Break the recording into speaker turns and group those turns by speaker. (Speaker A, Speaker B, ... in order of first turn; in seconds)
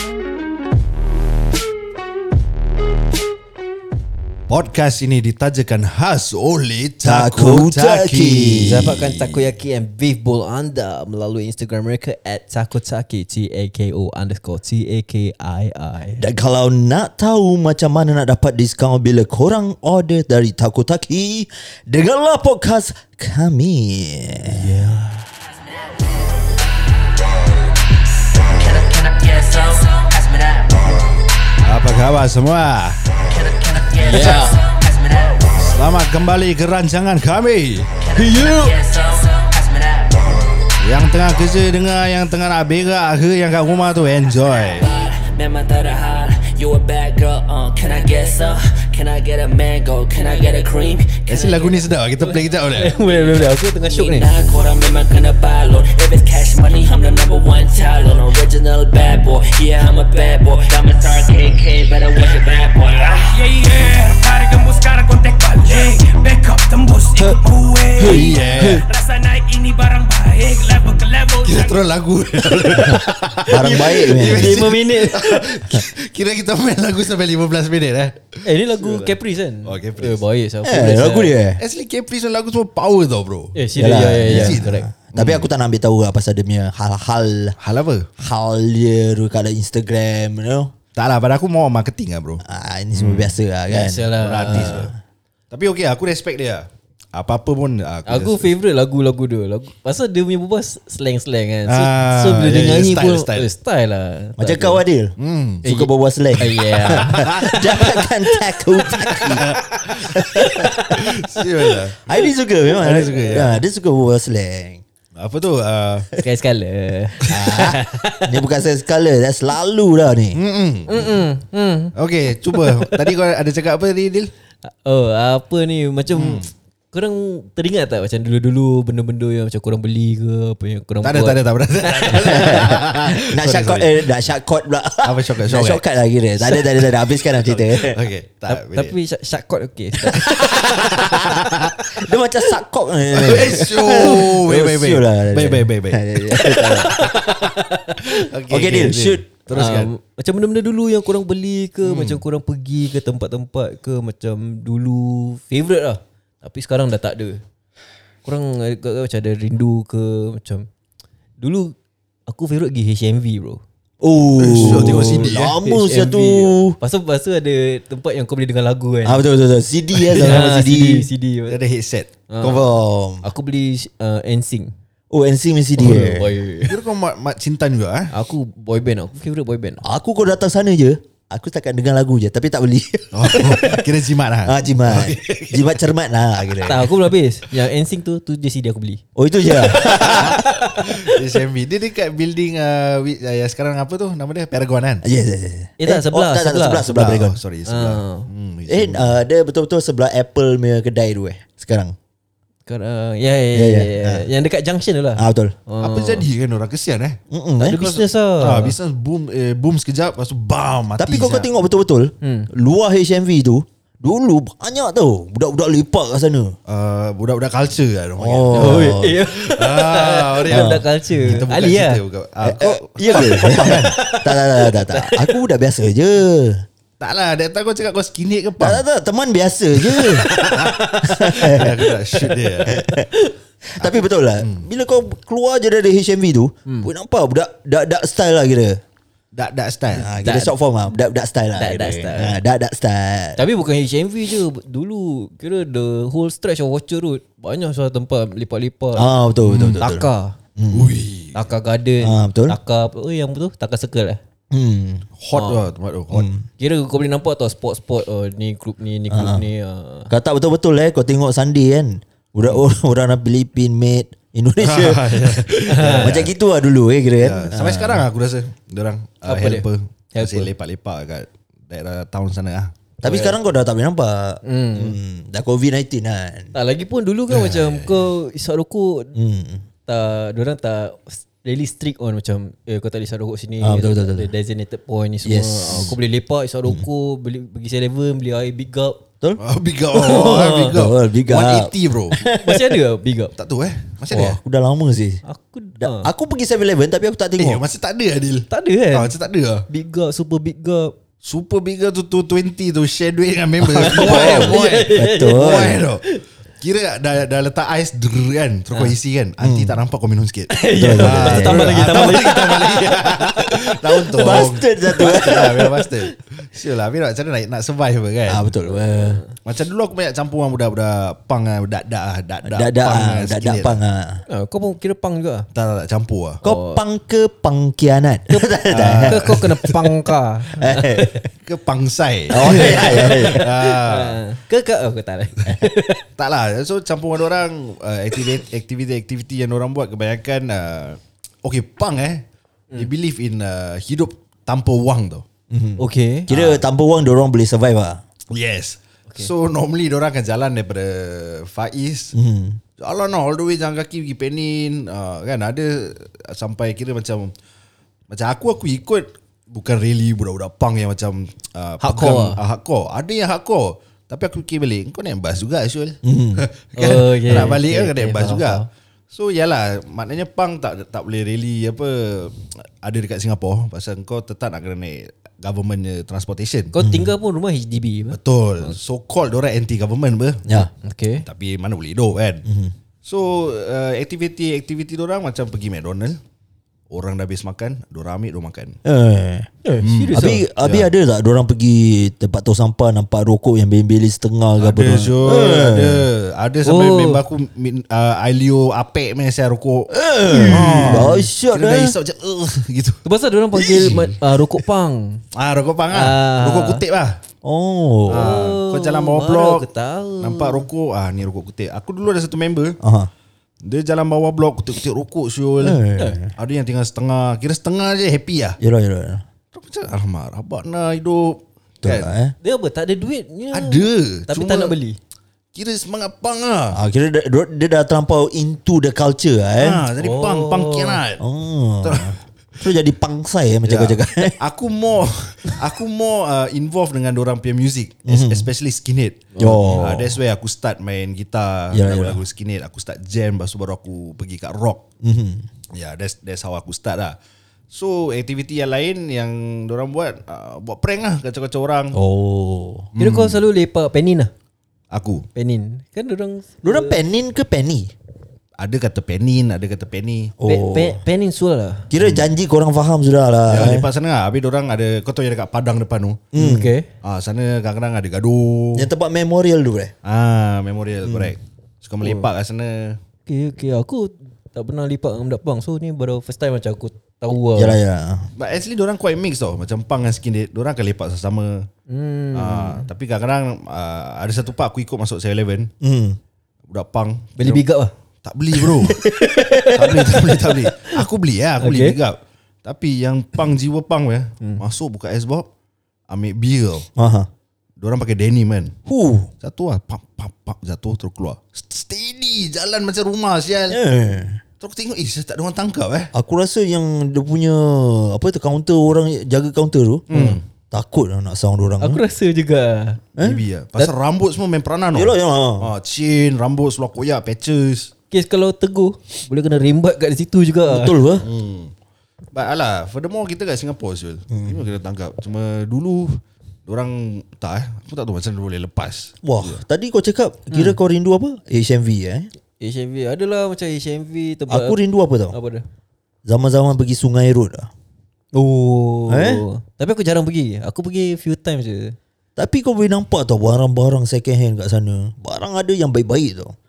Speaker A: 4.5-9.4, 31.6-33.0, 35.7-37.9, 40.8-44.9, 51.3-53.0, 68.0-68.8, 71.4-80.2, 81.6-83.5, 84.3-85.5, 87.6-88.1, 90.9-92.4, 92.9-93.4, 94.2-94.9, 95.5-98.5, 101.7-103.5, 105.2-105.6, 106.9-107.5, 109.2-110.2, 110.9-112.0, 112.7-113.6, 115.2-116.1, 120.3-121.2, 122.0-124.3, 126.1-126.5, 131.0-134.1, 135.0-135.8, 137.4-138.9, 140.1-141.8, 143.1-147.3, 148.0-149.9, 151.8-152.2, 164.4-165.5, 171.5-172.1, 176.7-178.1, 183.1-185.8, 186.3-186.9, 189.7-195.0, 196.8-199.2, 205.8-207.2, 207.8-211.5, 216.7-223.8, 227.0-228.8, 229.9-232.8, 233.8-234.7, 239.3-240.1, 249.4-249.9, 250.7-251.4, 255.2-256.3, 264.6-266.3, 267.2-272.7, 277.3-278.0, 289.4-292.2, 293.4-294.4, 297.4-299.6, 301.2-306.0, 306.6-318.5, 319.4-323.8, 325.5-326.4, 328.7-329.7, 331.4-334.2, 336.2-342.2, 342.8-345.2, 346.3-346.6, 348.3-352.1, 352.8-357.3, 358.1-376.7, 378.1-380.5, 381.2-382.4, 383.0-386.2, 386.9-388.8, 389.8-390.9, 394.6-403.0, 405.3-407.2, 408.1-409.6, 410.2-412.8, 413.6-415.8, 416.4-418.6, 419.5-422.1, 423.5-424.7, 425.5-426.8, 429.6-431.2, 431.8-432.1, 433.6-444.8, 445.7-447.1, 447.7-451.9, 452.9-453.4, 454.9-455.2, 458.6-460.3, 462.0-462.3, 463.5-466.2, 467.0-468.9, 470.0-473.0, 478.4-481.7, 482.3-485.7, 486.7-487.6, 488.2-489.0, 489.7-495.5, 496.1-496.9, 497.8-498.7, 499.4-503.8, 504.6-506.1, 510.1-510.4, 513.2-517.9, 521.2-521.7, 522.3-529.6
Speaker B: 7.0-8.9, 16.2-24.8, 38.1-38.7, 68.0-68.8, 73.5-74.8, 80.6-81.6, 83.8-87.5, 88.2-90.7, 92.4-94.9, 104.4-109.4, 110.0-110.7, 111.9-114.8, 117.3-120.4, 132.1-138.0, 141.9-147.1, 148.5-149.3, 164.0-166.8, 169.0-171.1, 172.4-173.2, 175.1-176.3, 179.8-183.9, 184.4-186.8, 189.2-190.6, 195.0-197.4, 198.7-201.9, 203.5-204.2, 205.2-205.5, 207.3-207.8, 211.0-216.6, 218.2-219.2, 220.5-220.8, 222.4-226.6, 228.6-230.3, 231.0-231.8, 232.7-233.1, 233.8-238.8, 239.9-243.4, 248.9-250.1, 250.6-250.9, 252.0-252.6, 254.5-255.1, 256.1-256.4, 259.1-259.4, 260.1-268.0, 273.0-276.5, 279.1-279.6, 283.6-284.3, 285.2-285.9, 290.6-292.8, 294.1-295.2, 295.8-297.6, 303.7-305.8, 309.4-309.8, 310.8-312.3, 314.1-315.7, 318.3-319.2, 322.4-324.2, 326.4-329.4, 330.5-331.3, 332.3-333.5, 345.5-348.0, 352.1-352.6, 366.0-366.4, 376.8-377.1, 382.4-382.7, 388.8-389.5, 390.1-396.0, 399.9-401.9, 403.5-404.1, 407.4-408.4, 412.8-413.1, 415.6-416.3, 418.6-419.2, 421.8-422.3, 426.7-429.8, 431.2-434.4, 438.1-438.5, 439.4-440.2, 441.7-442.2, 445.0-445.5, 451.9-452.9, 456.6-457.9, 460.4-461.0, 461.9-463.9, 466.3-466.7, 468.7-469.9, 471.0-471.3, 477.6-478.3, 485.8-486.2, 488.9-489.8, 496.9-497.3, 498.9-499.3, 503.7-504.4, 506.1-512.0, 513.2-513.4, 514.9-515.7, 520.7-521.2, 524.3-524.6, 529.2-532.3, 534.5-535.3, 536.2-537.7, 539.1-539.4, 542.4-546.5
Speaker C: 8.6-16.2, 24.5-25.2, 34.0-34.6, 52.7-54.4, 73.5-75.4, 78.4-81.3, 83.5-84.9, 93.7-94.8, 98.1-104.8, 105.6-109.3, 110.4-110.9, 116.2-118.4, 120.9-121.9, 122.5-123.0, 124.6-132.8, 138.5-141.3, 146.9-147.6, 149.5-157.4, 158.2-160.7, 161.4-161.7, 162.3-163.6, 164.5-169.2, 170.1-171.6, 172.3-174.7, 175.8-176.8, 178.1-179.8, 186.6-189.0, 189.6-191.1, 195.8-196.9, 197.7-198.3, 202.7-206.2, 207.6-208.8, 212.2-212.5, 218.5-222.0, 223.1-225.3, 230.3-231.7, 232.7-233.3, 240.2-240.5, 241.6-242.4, 243.4-249.1, 249.8-250.3, 251.3-254.2, 255.3-255.6, 256.6-260.1, 265.7-266.2, 269.2-270.5, 273.0-273.3, 274.4-275.0, 276.5-279.1, 279.9-289.0, 289.9-290.7, 292.3-293.3, 295.2-296.1, 298.5-299.1, 299.7-300.9, 303.7-306.2, 310.5-315.8, 318.6-319.3, 324.3-325.5, 326.4-326.8, 328.3-331.2, 332.3-336.0, 345.8-346.3, 361.8-362.4, 366.8-368.7, 376.7-378.8, 380.7-381.2, 389.6-390.4, 396.6-397.2, 400.3-401.2, 403.0-405.2, 405.9-406.8, 408.1-410.6, 422.4-425.0, 430.0-431.0, 439.3-439.9, 453.0-454.3, 455.3-456.9, 460.4-461.9, 466.3-466.9, 473.2-477.8, 481.9-482.9, 487.4-487.9, 488.9-491.0, 491.6-492.0, 511.8-513.0, 518.1-521.0, 530.5-530.8, 532.6-534.8, 535.3-535.6, 538.3-542.0
Speaker D: 28.5-31.0, 33.2-35.7, 38.0-40.5, 44.7-52.3, 53.0-65.7, 67.2-69.0, 71.1-71.8
Speaker E: 63.6-68.1, 68.9-71.5